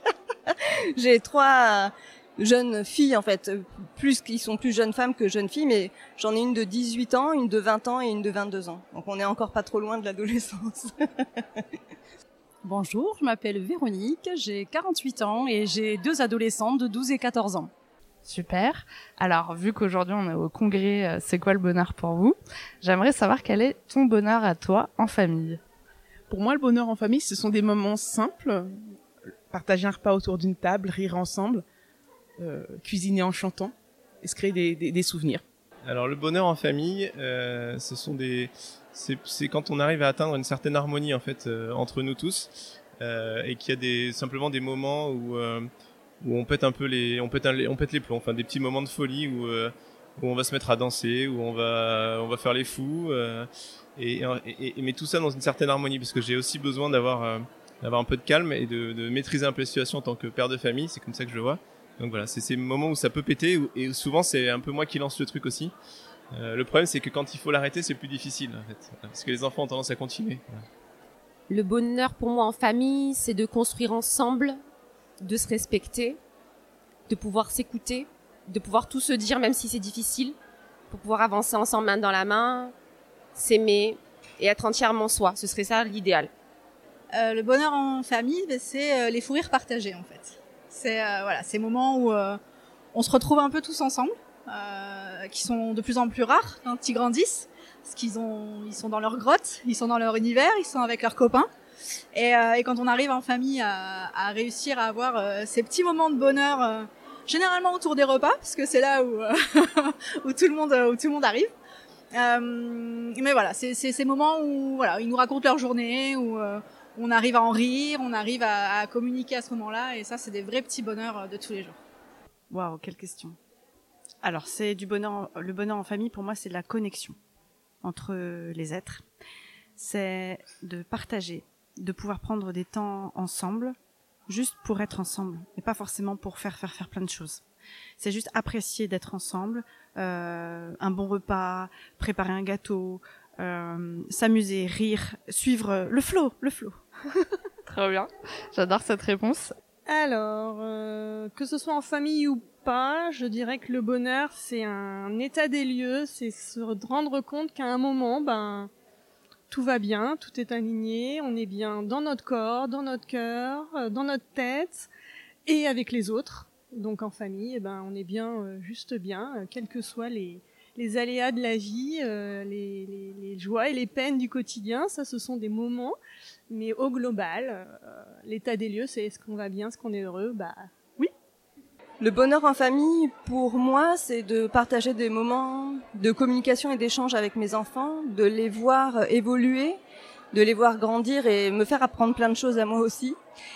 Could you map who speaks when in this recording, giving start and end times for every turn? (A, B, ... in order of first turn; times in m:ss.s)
0:00.5-0:11.6 A
0:12.6-0:17.7 B
0:18.2-0:25.6 C
0:26.3-0:28.7 D
0:29.5-0:31.6 D
0:32.4-0:35.4 D
0:35.8-0:45.7 E
0:46.2-1:05.7 E
1:06.3-1:10.6 E
1:11.5-1:14.6 F
1:15.2-1:16.2 F
1:17.1-1:20.4 F
1:20.9-1:22.7 F
1:23.4-1:26.3 F
1:27.1-1:32.4 G
1:32.9-1:41.5 G
1:42.1-1:51.5 G
1:52.1-2:01.8 G
2:02.5-2:03.4 H
2:04.2-2:07.2 H
2:07.8-2:09.0 H
2:09.8-2:13.8 H
2:14.3-2:17.4 H
2:18.0-2:26.8 H
2:27.7-2:29.5 C
2:29.9-2:38.7 I
2:39.5-2:44.9 I
2:45.5-2:56.0 I
2:56.5-3:01.1 I
3:02.0-3:09.8 A
3:10.3-3:13.2 A